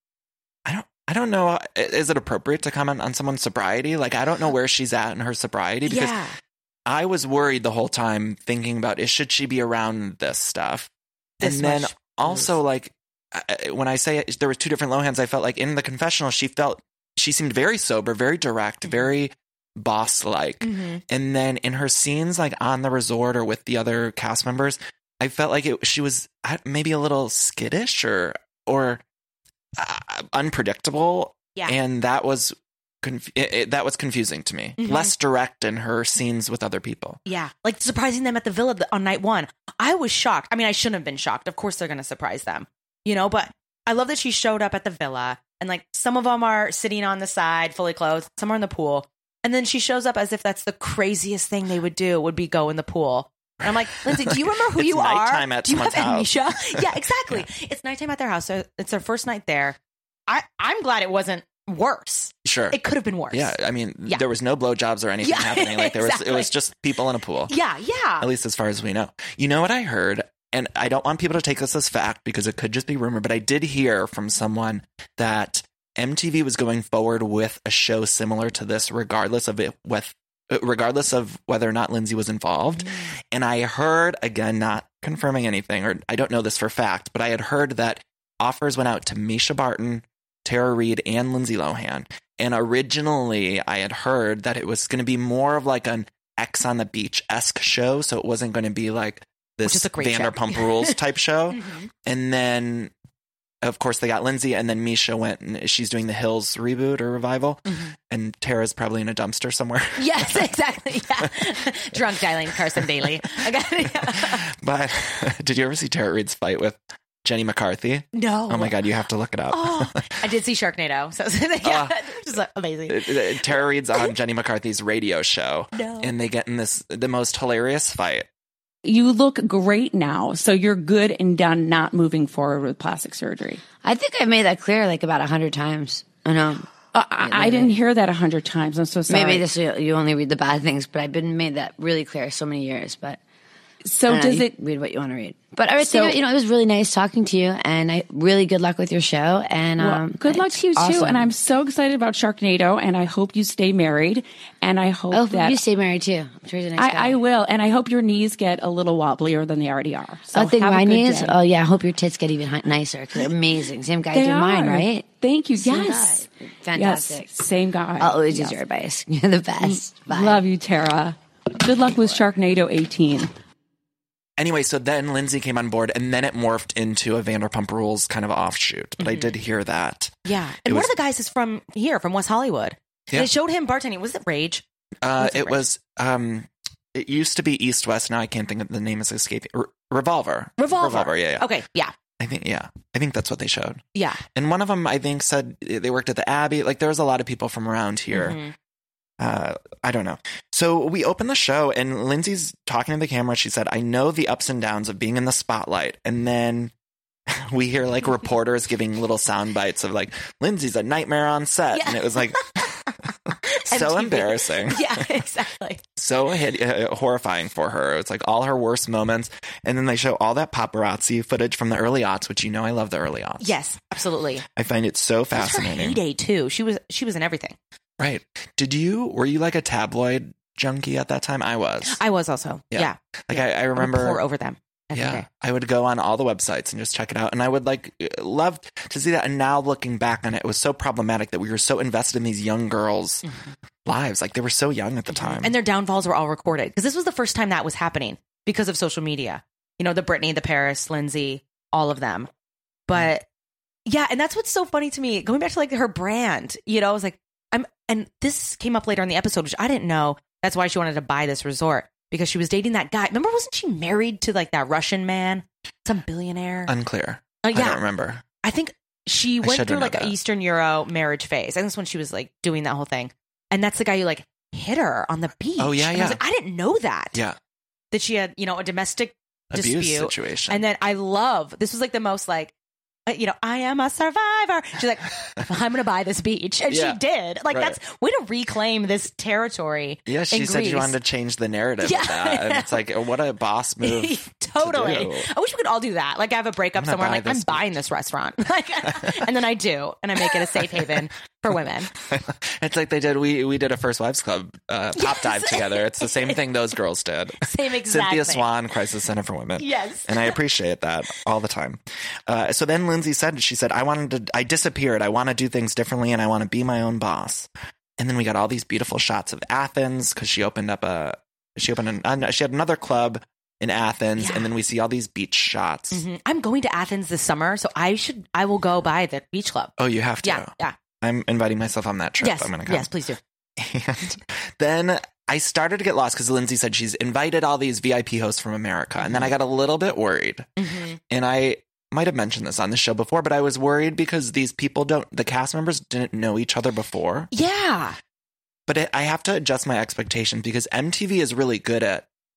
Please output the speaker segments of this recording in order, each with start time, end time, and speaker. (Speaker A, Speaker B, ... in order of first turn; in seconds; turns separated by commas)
Speaker A: 0.6-6.2, Speaker B: 5.8-6.3, Speaker A: 6.9-10.9, Speaker B: 11.4-12.5, Speaker A: 11.4-29.0, Speaker B: 20.6-21.0, Speaker A: 29.8-37.2, Speaker B: 34.8-35.1, Speaker B: 37.2-63.5, Speaker A: 53.6-57.5, Speaker A: 62.4-62.8, Speaker A: 63.3-67.5, Speaker B: 65.2-66.5, Speaker B: 67.5-68.3, Speaker A: 68.2-102.9, Speaker B: 82.8-83.1, Speaker B: 99.7-101.0, Speaker B: 101.5-101.9, Speaker A: 103.6-110.4, Speaker B: 107.7-107.9, Speaker B: 110.0-114.4, Speaker A: 112.7-113.2, Speaker A: 114.0-120.1, Speaker B: 118.1-118.8, Speaker B: 119.5-124.1, Speaker A: 121.6-122.0, Speaker A: 122.9-128.3, Speaker B: 125.7-126.1, Speaker C: 128.8-133.6, Speaker D: 133.8-136.7, Speaker C: 136.9-139.4, Speaker D: 137.2-137.7, Speaker D: 139.1-143.2, Speaker C: 143.8-144.5, Speaker D: 144.1-151.3, Speaker C: 145.8-146.2, Speaker C: 149.8-155.6, Speaker D: 155.1-157.2, Speaker C: 156.8-161.4, Speaker D: 160.3-165.0, Speaker C: 164.1-166.2, Speaker D: 165.6-167.4, Speaker C: 166.7-168.6, Speaker D: 168.0-170.4, Speaker C: 169.6-173.3, Speaker A: 174.4-180.9, Speaker B: 179.0-179.3, Speaker B: 180.2-184.6, Speaker A: 185.0-191.5, Speaker B: 185.2-185.6, Speaker B: 190.6-191.9, Speaker A: 192.2-198.4, Speaker B: 193.9-194.2, Speaker B: 198.1-198.5, Speaker A: 199.2-206.7, Speaker A: 207.3-212.7, Speaker B: 211.7-212.7, Speaker A: 213.3-215.1, Speaker B: 213.4-215.8, Speaker A: 216.0-223.5, Speaker B: 223.4-224.4, Speaker A: 224.4-226.0, Speaker B: 225.3-227.6, Speaker A: 228.0-232.0, Speaker B: 231.9-235.2, Speaker A: 232.7-234.2, Speaker A: 234.9-243.2, Speaker B: 243.2-243.5, Speaker A: 243.8-245.6, Speaker B: 245.1-252.3, Speaker B: 252.9-253.2, Speaker B: 253.8-266.7, Speaker A: 266.7-268.2, Speaker B: 267.4-267.8, Speaker B: 268.4-277.2, Speaker A: 269.4-270.1, Speaker A: 275.6-276.2, Speaker B: 277.9-282.5, Speaker A: 279.5-280.6, Speaker B: 283.1-290.9, Speaker A: 286.7-287.8, Speaker A: 290.1-295.3, Speaker B: 291.8-292.8, Speaker B: 293.8-301.9, Speaker A: 296.7-297.7, Speaker A: 298.8-299.2, Speaker A: 300.3-301.0, Speaker A: 302.0-326.0, Speaker B: 304.9-306.4, Speaker B: 307.4-308.5, Speaker B: 309.6-310.4, Speaker B: 324.2-324.5, Speaker B: 325.9-330.8, Speaker A: 329.8-332.9, Speaker B: 332.2-333.2, Speaker A: 333.6-340.5, Speaker B: 339.0-339.3, Speaker B: 340.6-341.0, Speaker A: 341.1-347.3, Speaker B: 347.3-348.0, Speaker A: 348.7-352.0